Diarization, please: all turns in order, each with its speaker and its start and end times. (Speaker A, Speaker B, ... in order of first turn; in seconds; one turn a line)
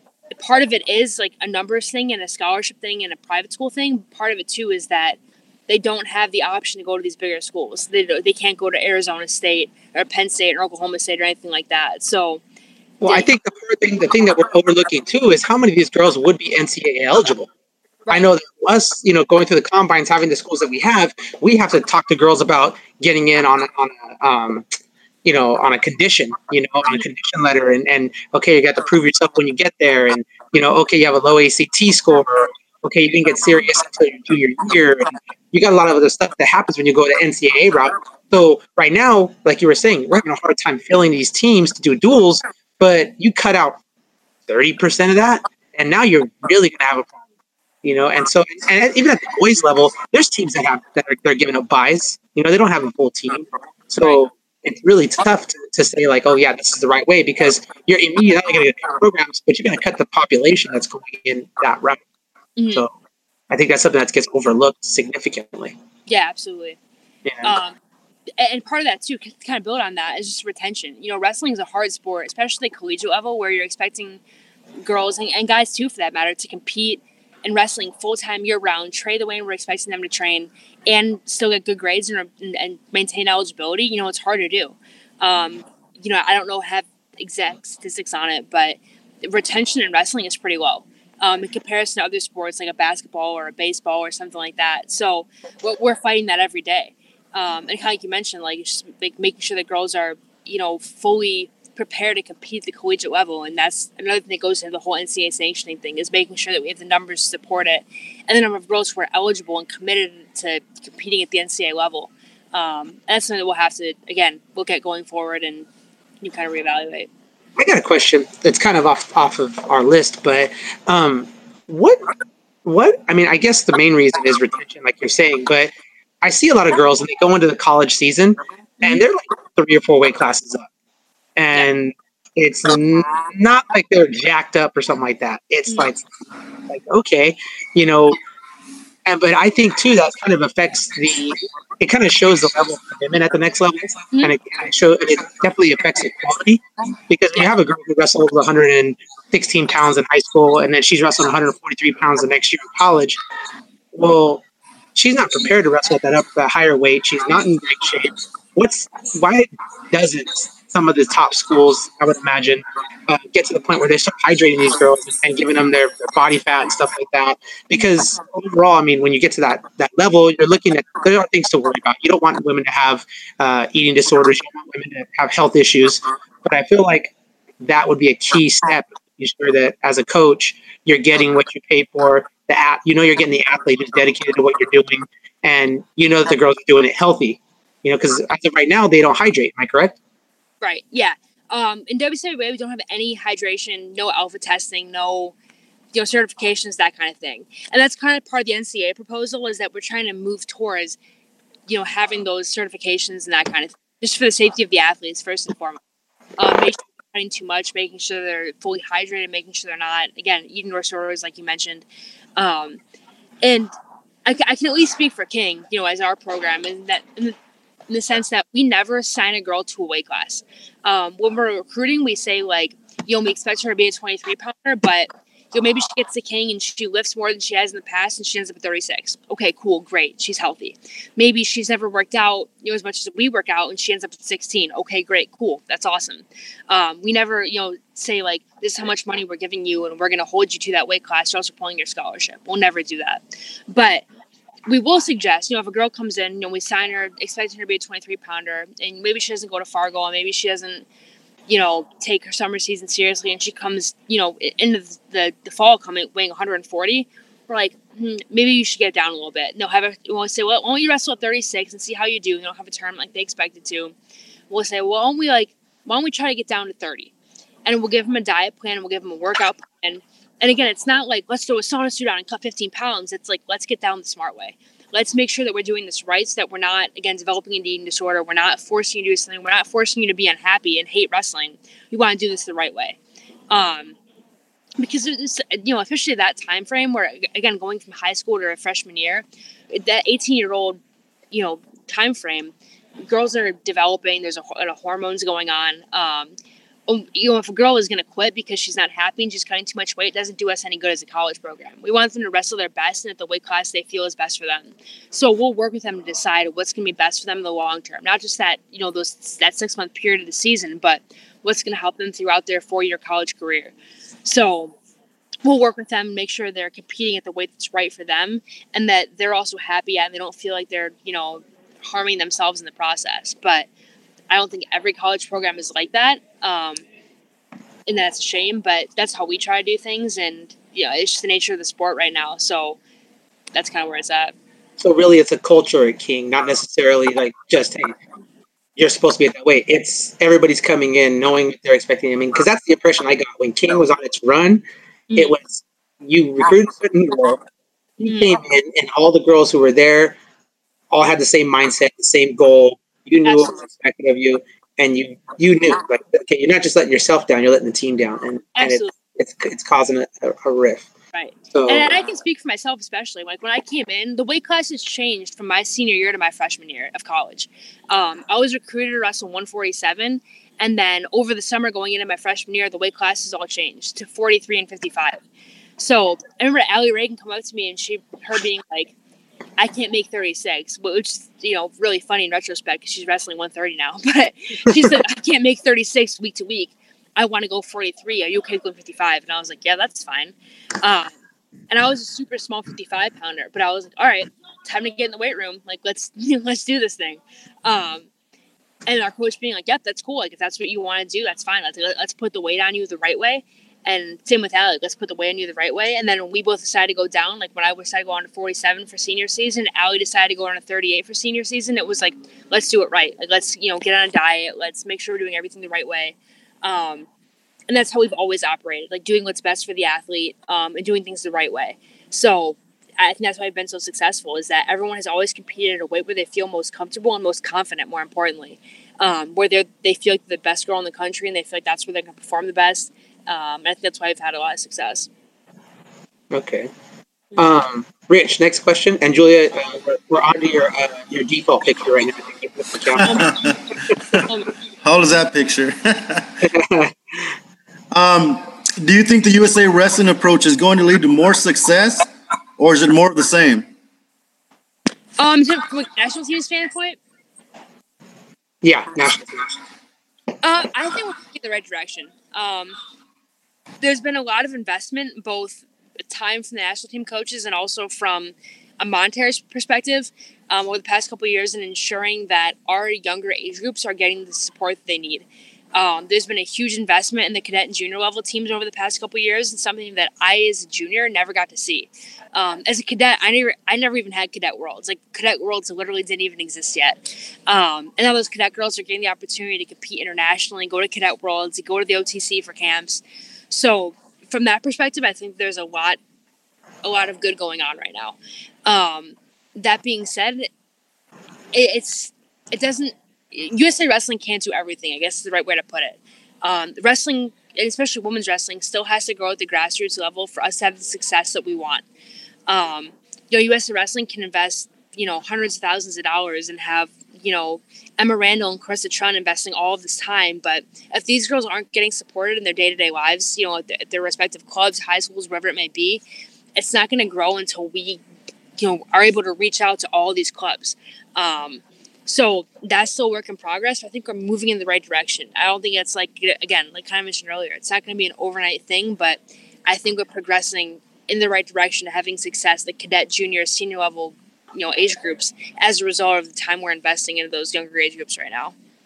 Speaker A: 0.3-12.4
Speaker B: 13.0-17.5
Speaker B: 18.1-24.6
Speaker B: 25.2-43.8
Speaker B: 44.5-47.2
Speaker B: 47.8-62.0
Speaker A: 62.6-62.8
Speaker B: 63.5-65.7
Speaker A: 66.1-66.8
Speaker B: 67.2-67.6
Speaker A: 67.4-67.8
Speaker A: 68.4-74.2
Speaker A: 74.8-115.7
Speaker A: 116.2-117.1
Speaker B: 117.6-122.1
Speaker B: 122.6-125.7
Speaker B: 126.2-130.7
Speaker B: 131.4-136.0
Speaker B: 136.7-138.2
Speaker B: 139.1-153.2
Speaker B: 153.9-154.4
Speaker B: 154.9-189.9
Speaker A: 190.6-195.3
Speaker A: 195.9-201.0
Speaker A: 201.7-205.8
Speaker A: 206.4-211.8
Speaker A: 212.4-212.8
Speaker A: 213.4-213.7
Speaker A: 214.2-217.4
Speaker A: 217.9-244.1
Speaker A: 244.7-250.9
Speaker A: 251.5-263.9
Speaker A: 264.5-267.1
Speaker A: 267.6-283.0
Speaker A: 283.5-284.0
Speaker A: 284.8-290.8
Speaker A: 291.3-292.5
Speaker A: 293.1-296.3
Speaker A: 296.9-313.7
Speaker A: 314.2-314.7
Speaker A: 315.4-323.7
Speaker A: 324.3-326.8
Speaker A: 327.9-332.8
Speaker A: 333.5-334.3
Speaker B: 334.8-337.9
Speaker B: 338.8-344.6
Speaker A: 345.1-345.4
Speaker B: 345.1-347.4
Speaker B: 348.0-350.2
Speaker A: 348.0-348.3
Speaker B: 350.9-360.9
Speaker A: 358.6-358.9
Speaker A: 361.1-375.2
Speaker B: 361.5-361.9
Speaker A: 375.8-378.9
Speaker A: 379.6-391.1
Speaker A: 391.7-398.1
Speaker A: 398.9-417.1
Speaker A: 417.7-435.1
Speaker B: 436.3-436.7
Speaker B: 437.4-443.3
Speaker C: 443.0-443.6
Speaker A: 443.0-443.4
Speaker A: 444.1-444.5
Speaker C: 444.8-446.4
Speaker B: 446.4-447.3
Speaker C: 447.9-452.1
Speaker C: 452.6-453.7
Speaker A: 455.2-457.0
Speaker B: 458.6-459.5
Speaker A: 460.4-462.8
Speaker A: 463.8-496.0
Speaker A: 496.8-500.5
Speaker A: 501.5-511.8
Speaker A: 512.5-526.0
Speaker A: 526.5-528.0
Speaker A: 528.6-548.5